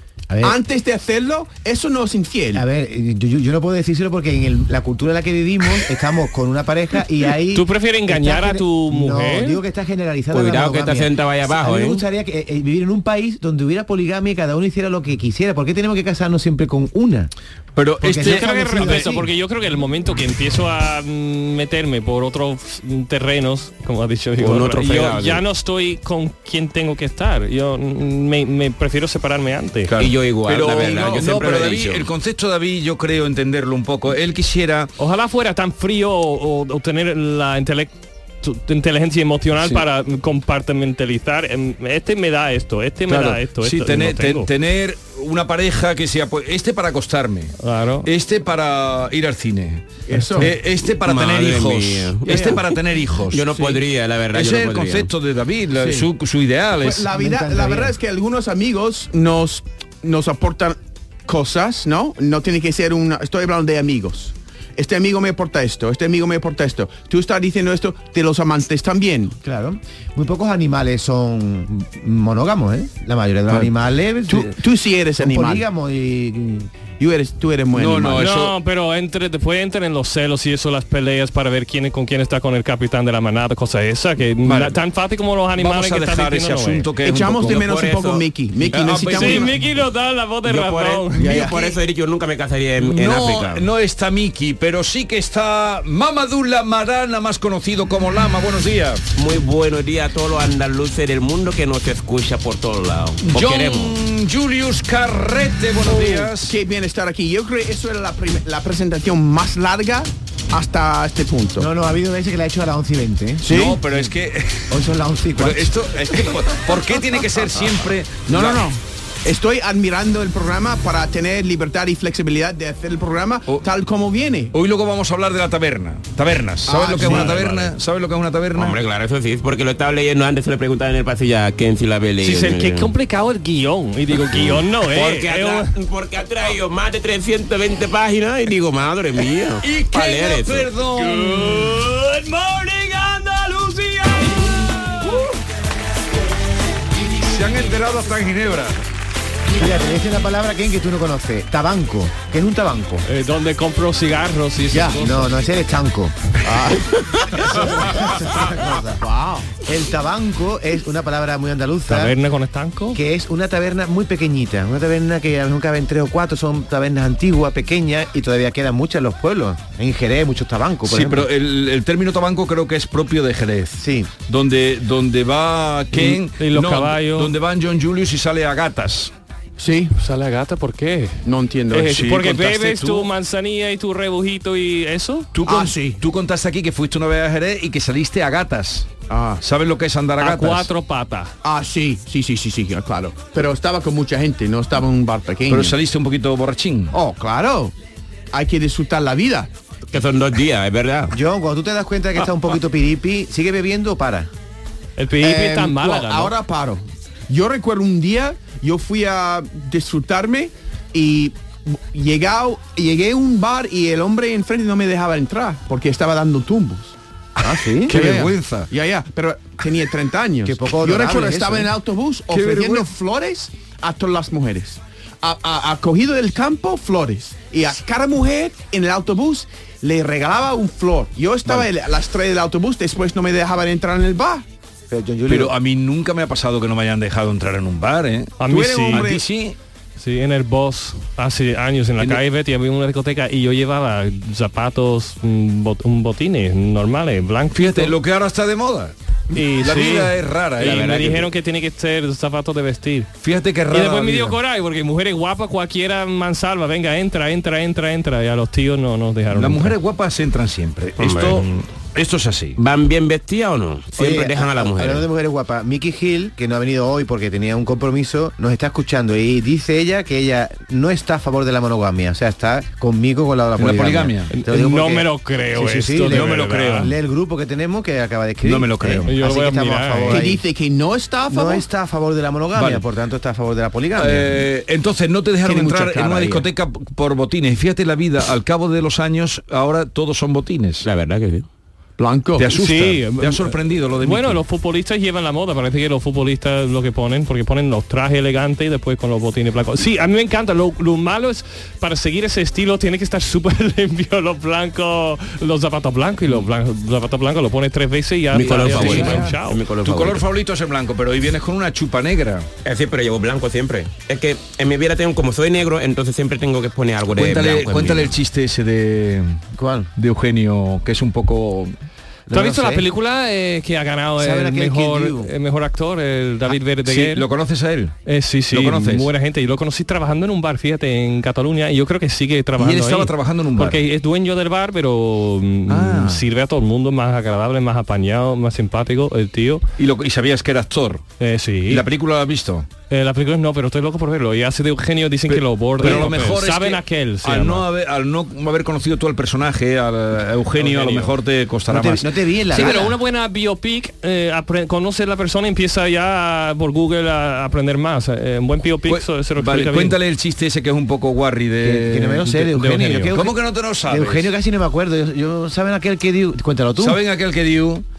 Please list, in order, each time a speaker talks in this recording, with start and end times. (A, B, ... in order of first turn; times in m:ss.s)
0:00.3-0:00.6 A
0:00.4-0:02.6 B
0:02.5-0:17.3 A
0:07.5-0:09.6 C
0:10.3-0:12.0 D
0:17.8-0:19.1 E
0:18.0-0:19.3 A
0:18.2-0:29.9 C
0:24.4-0:25.4 D
0:29.9-0:34.9 E
0:30.0-0:32.1 D
0:30.7-0:31.2 B
0:35.0-0:44.5 C
0:43.1-0:47.5 E
0:47.6-0:48.1 C
0:48.0-0:49.9 E
0:50.1-0:50.5 B
0:50.4-0:53.4 E
0:50.8-0:52.4 D
0:52.3-0:52.6 B
0:53.3-0:55.1 D
0:53.5-0:53.8 B
0:54.3-0:57.1 E
0:55.8-0:56.1 B
0:56.8-1:09.4 B
0:57.1-0:57.9 A
1:09.4-1:14.6 A
1:14.3-1:15.6 B
1:15.2-1:16.7 A
1:17.0-1:18.2 B
1:17.8-1:18.5 E
1:18.2-1:26.9 C
1:24.4-1:24.8 E
1:25.6-1:27.6 E
1:27.0-1:29.5 B
1:27.4-1:29.3 D
1:28.7-1:29.5 E
1:29.1-1:31.2 C
1:30.4-1:33.6 D
1:31.2-1:31.8 B
1:32.8-1:39.0 E
1:39.2-1:43.9 D
1:43.2-1:46.6 E
1:45.9-1:51.7 B
1:51.6-1:54.1 A
1:53.4-1:53.8 B
1:53.5-1:54.7 E
1:54.7-1:55.7 A
1:55.4-1:58.6 E
1:58.2-2:04.5 B
2:04.5-2:08.8 E
2:06.6-2:07.5 B
2:07.0-2:07.7 C
2:08.6-2:12.9 D
2:12.2-2:15.7 C
2:14.3-2:20.7 D
2:19.6-2:24.1 E
2:21.0-2:23.5 C
2:27.0-2:28.8 E
2:29.5-2:33.0 A
2:33.0-2:35.4 C
2:34.7-2:35.0 B
2:35.0-2:36.1 A
2:36.4-2:37.7 B
2:37.4-2:39.0 A
2:39.0-2:39.5 B
2:39.6-2:42.2 A
2:41.9-2:43.0 C
2:42.9-2:51.3 A
2:50.9-2:59.1 E
2:53.8-2:54.1 A
2:55.9-2:57.3 C
2:59.6-2:59.9 B
3:00.0-3:05.3 C
3:01.2-3:02.1 B
3:01.9-3:03.1 E
3:05.3-3:08.9 E
3:05.4-3:06.0 B
3:09.1-3:09.4 B
3:09.4-3:10.7 E
3:10.2-3:11.3 C
3:11.4-3:15.8 B
3:15.5-3:16.9 E
3:16.9-3:17.7 B
3:18.3-3:19.5 B
3:19.9-3:21.1 D
3:21.1-3:24.3 A
3:25.0-3:26.3 C
3:25.2-3:36.9 B
3:37.4-3:38.0 A
3:37.5-3:54.4 B
3:37.9-3:38.7 E
3:40.4-3:41.7 A
3:42.3-3:42.9 E
3:54.9-3:55.5 A
3:55.3-3:59.6 E
3:58.4-3:59.1 C
3:58.5-3:59.2 B
4:00.0-4:07.9 C
4:07.5-4:08.9 E
4:09.3-4:13.1 C
4:09.6-4:10.9 E
4:10.6-4:11.3 D
4:13.2-4:14.4 E
4:13.7-4:19.8 C
4:19.3-4:22.6 E
4:21.0-4:21.4 D
4:22.6-4:25.0 D
4:24.0-4:40.4 A
4:33.6-4:34.3 E
4:34.3-4:36.9 C
4:36.1-4:36.9 E
4:38.4-4:39.1 E
4:39.0-4:40.2 C
4:40.1-4:41.6 B
4:41.3-4:44.4 A
4:42.6-4:42.8 E
4:44.0-4:50.8 E
4:45.4-4:46.5 B
4:50.8-4:51.4 D
4:52.0-4:52.5 B
4:52.4-4:54.4 E
4:52.5-5:09.6 C
5:08.3-5:10.2 D
5:08.5-5:12.5 E
5:12.6-5:18.2 D
5:17.1-5:19.4 E
5:19.6-5:19.9 A
5:20.0-5:21.7 E
5:22.3-5:22.8 A
5:22.3-5:27.2 C
5:24.2-5:25.3 A
5:26.8-5:27.9 E
5:28.0-5:39.6 C
5:28.5-5:29.1 E
5:32.6-5:33.8 E
5:35.7-5:36.2 E
5:39.8-5:41.0 E
5:41.2-5:41.8 C
5:41.7-5:42.7 E
5:42.9-5:47.7 C
5:45.3-5:52.8 E
5:50.6-5:51.1 C
5:51.7-5:53.0 A
5:52.5-6:00.0 C
5:58.8-6:02.3 E
6:01.6-6:07.0 A
6:02.2-6:03.1 C
6:03.1-6:04.3 E
6:06.8-6:07.8 E